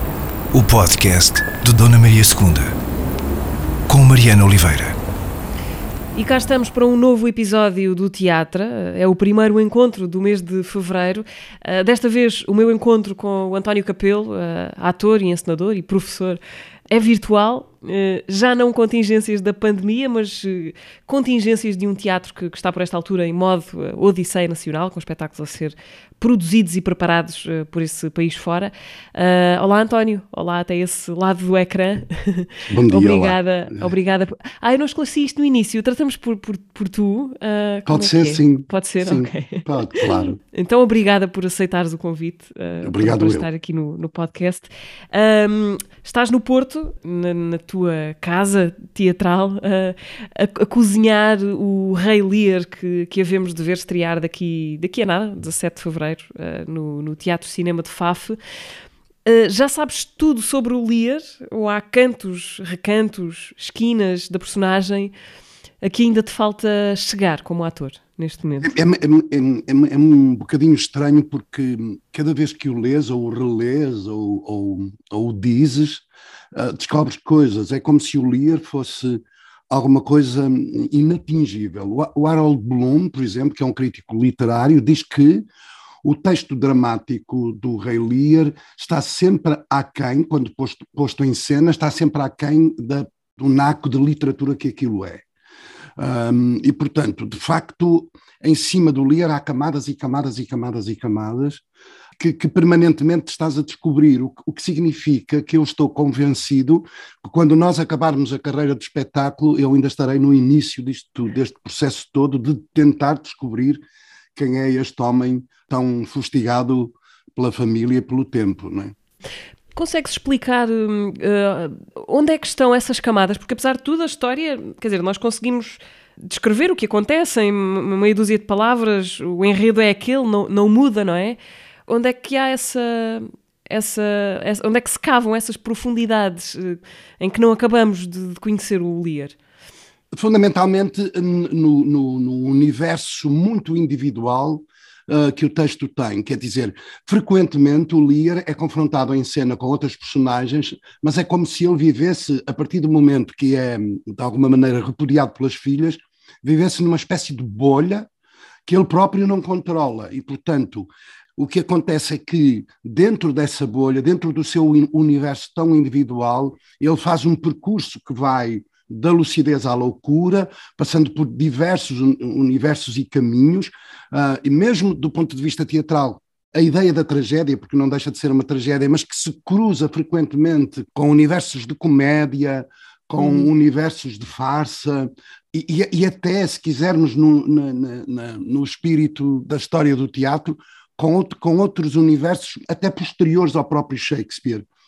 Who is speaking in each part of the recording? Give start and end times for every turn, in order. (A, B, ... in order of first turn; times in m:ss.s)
0:00.5-0:02.7 A
0:03.9-0:05.0 A
0:06.1-0:16.4 B
0:16.9-0:58.4 B
0:32.7-0:33.8 C
0:37.9-0:40.4 C
0:42.8-0:43.4 C
0:59.2-1:05.1 B
1:05.8-1:08.7 B
1:08.6-1:25.5 C
1:26.0-1:35.2 C
1:36.0-1:41.6 C
1:42.2-1:53.8 C
1:54.4-1:58.9 C
1:59.7-2:19.4 B
2:20.1-2:38.1 C
2:38.6-3:14.7 C
3:03.2-3:03.5 B